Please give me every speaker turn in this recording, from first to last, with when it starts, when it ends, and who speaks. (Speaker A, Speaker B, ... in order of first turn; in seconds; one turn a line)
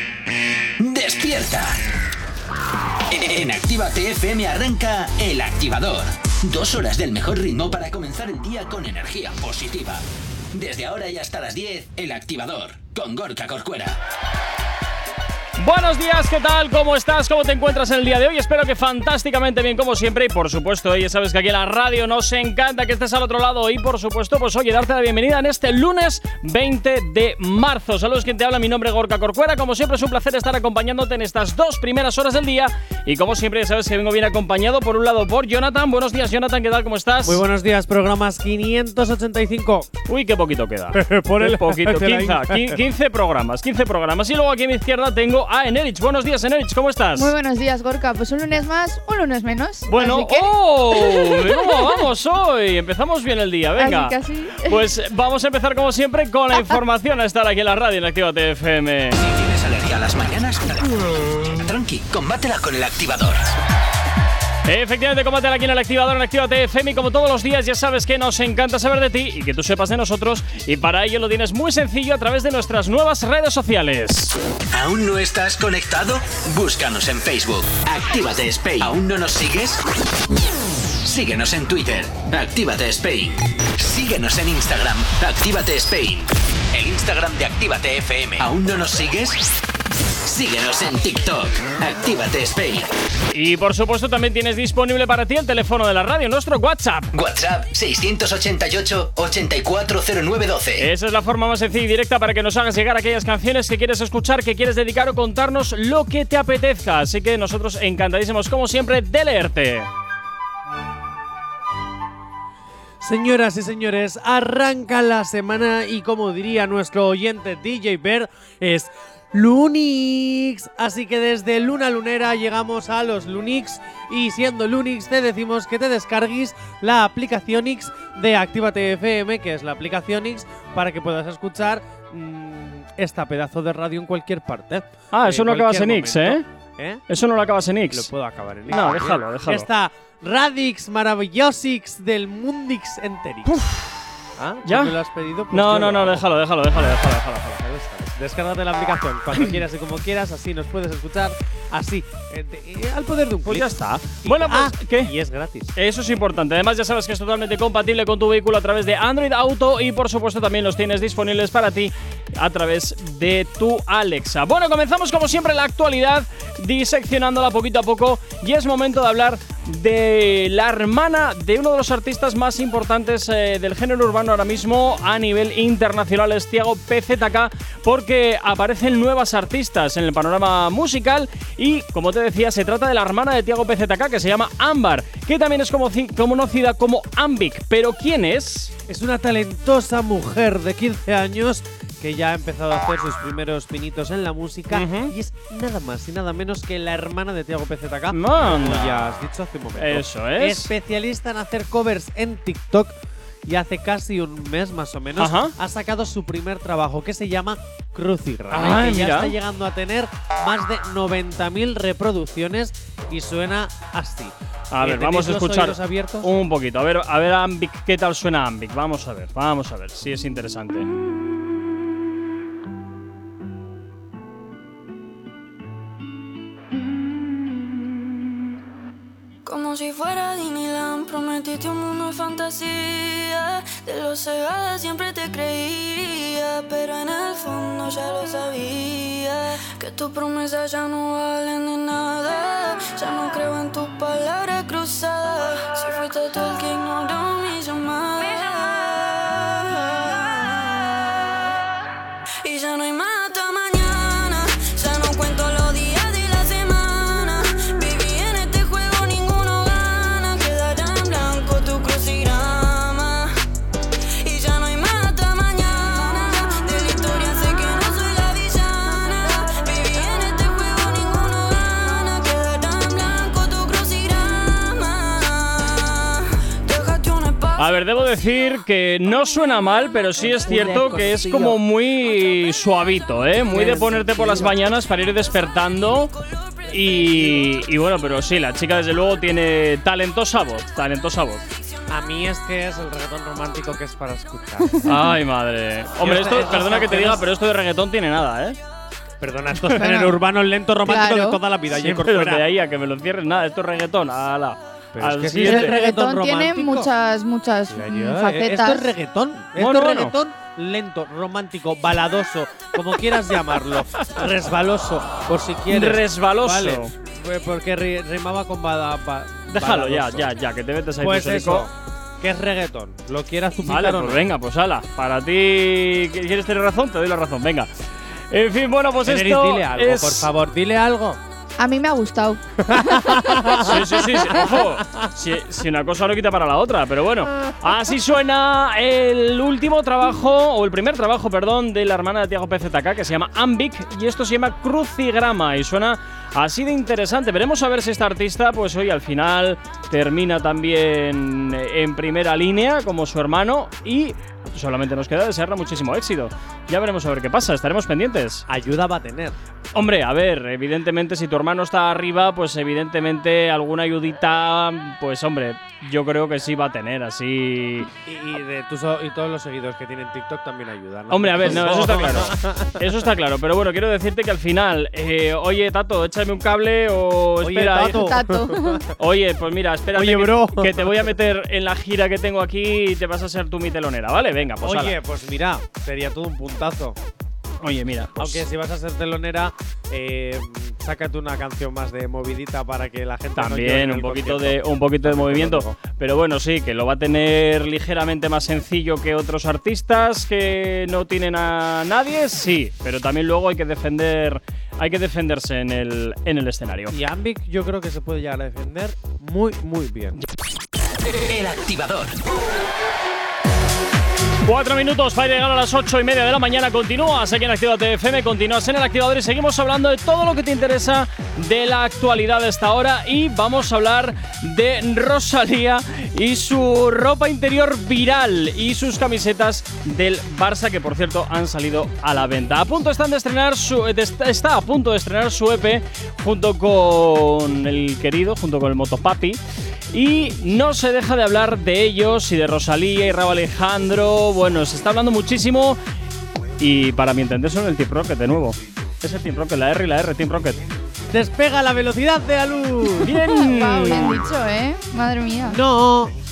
Speaker A: 0.8-1.8
Speaker A: 3.1-14.0
Speaker B: 15.6-37.4
Speaker C: 37.2-39.9
Speaker B: 40.1-47.3
Speaker C: 40.9-42.8
Speaker D: 47.1-52.0
Speaker B: 49.9-59.2
Speaker D: 53.8-54.8
Speaker A: 59.2-63.5
Speaker B: 64.7-74.3
Speaker A: 74.7-79.8
Speaker A: 81.0-89.5
Speaker A: 90.3-92.9
Speaker B: 93.3-97.1
Speaker A: 97.1-100.9
Speaker B: 100.8-109.9
Speaker C: 113.0-137.0
Speaker B: 135.1-136.4
Speaker B: 137.1-138.1
Speaker C: 137.9-143.6
Speaker B: 138.7-139.7
Speaker B: 143.5-143.8
Speaker C: 144.4-146.3
Speaker B: 144.7-144.9
Speaker B: 145.5-147.6
Speaker C: 147.6-155.7
Speaker B: 153.4-155.1
Speaker B: 155.8-188.7
Speaker C: 188.9-216.3
Speaker B: 194.7-195.1
Speaker B: 198.1-198.9
Speaker B: 199.8-200.7
Speaker B: 205.2-205.5
Speaker B: 208.5-209.3
Speaker B: 214.7-220.9
Speaker E: 229.4-251.4
Speaker E: 252.4-263.3
Speaker E: 264.2-277.7
Speaker B: 277.6-286.1
Speaker C: 280.5-281.6
Speaker C: 283.5-284.5
Speaker B: 286.7-291.4
Speaker C: 287.0-287.4
Speaker C: 291.9-294.8
Speaker B: 294.9-298.6
Speaker C: 296.0-297.3
Speaker C: 299.2-302.5
Speaker D: 299.7-300.2
Speaker D: 300.9-301.4
Speaker B: 301.7-305.8
Speaker C: 304.9-306.9
Speaker D: 305.4-308.9
Speaker C: 307.7-320.3
Speaker B: 309.6-310.1
Speaker B: 315.7-316.9
Speaker B: 319.5-321.7
Speaker C: 321.0-324.3
Speaker B: 323.6-327.7
Speaker B: 328.3-330.3
Speaker C: 329.0-331.2
Speaker D: 331.6-333.7
Speaker C: 332.7-333.7
Speaker B: 333.5-358.4
Speaker C: 334.4-334.8
Speaker C: 358.5-359.4
Speaker B: 359.7-367.9
Speaker C: 368.1-372.9
Speaker B: 371.1-378.1
Speaker C: 377.4-378.9
Speaker D: 378.0-378.8
Speaker B: 379.0-385.0
Speaker C: 379.9-381.1
Speaker C: 384.6-387.0
Speaker B: 387.6-388.4
Speaker C: 388.2-395.8
Speaker B: 393.4-407.0
Speaker C: 406.9-410.2
Speaker A: 411.1-412.2
Speaker B: 414.4-439.4
Speaker B: 439.9-445.8
Speaker B: 446.6-450.6
Speaker C: 451.1-453.2
Speaker B: 453.0-454.2
Speaker D: 453.3-455.6
Speaker C: 455.4-456.1